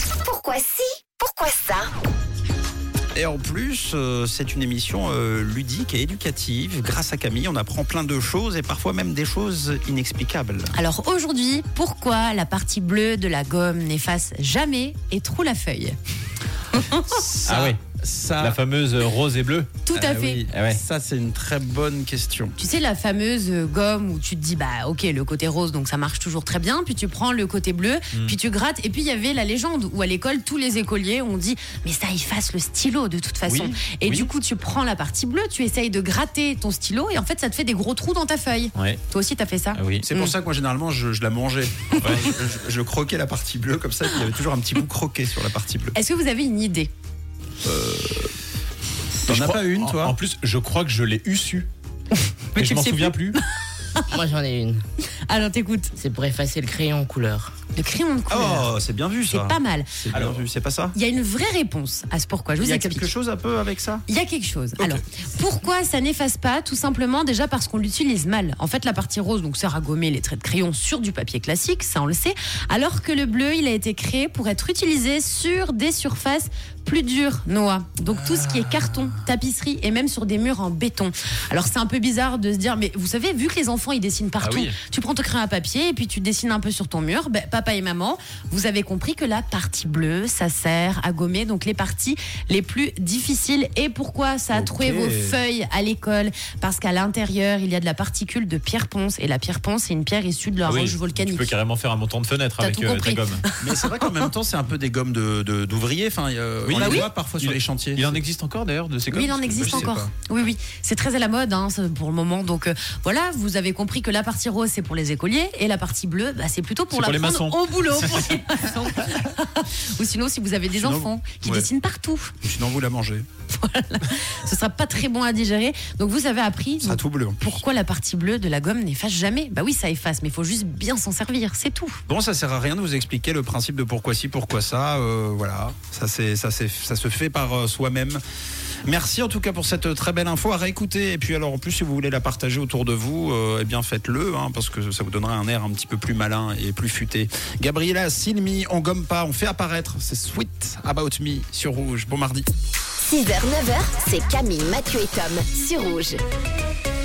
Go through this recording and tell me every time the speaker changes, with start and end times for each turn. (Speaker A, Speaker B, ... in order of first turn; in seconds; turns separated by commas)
Speaker A: 0.2-1.9, Speaker B: 3.1-10.7, Speaker C: 10.7-16.0, Speaker C: 16.7-17.2, Speaker B: 17.0-18.6, Speaker D: 17.4-17.8, Speaker D: 18.4-19.8, Speaker C: 19.8-20.5, Speaker B: 19.9-22.6, Speaker D: 20.5-20.8, Speaker C: 22.6-40.3, Speaker D: 33.5-34.3, Speaker D: 39.8-40.1, Speaker B: 40.1-46.0, Speaker D: 42.0-42.3, Speaker C: 46.0-46.9, Speaker B: 47.6-48.3, Speaker B: 49.2-50.2, Speaker D: 49.3-51.7, Speaker C: 52.5-54.1, Speaker D: 52.6-53.4, Speaker E: 54.1-54.8, Speaker C: 55.3-55.9, Speaker E: 56.0-57.5, Speaker C: 57.8-58.7, Speaker B: 58.3-61.0, Speaker C: 59.3-59.9, Speaker D: 60.1-60.5, Speaker C: 61.0-63.1, Speaker B: 62.6-64.0, Speaker C: 64.1-101.5, Speaker B: 78.2-79.1, Speaker D: 84.4-84.8, Speaker B: 94.5-95.4, Speaker D: 100.7-103.5, Speaker C: 102.6-104.3, Speaker B: 103.6-108.2, Speaker D: 106.7-110.1, Speaker C: 106.8-107.1, Speaker C: 109.1-122.4, Speaker B: 109.6-110.1, Speaker D: 116.9-118.3, Speaker B: 120.7-121.7, Speaker B: 122.4-123.2, Speaker C: 123.5-132.0, Speaker B: 126.8-127.5, Speaker B: 132.1-138.2, Speaker B: 138.8-152.5, Speaker A: 153.0-156.2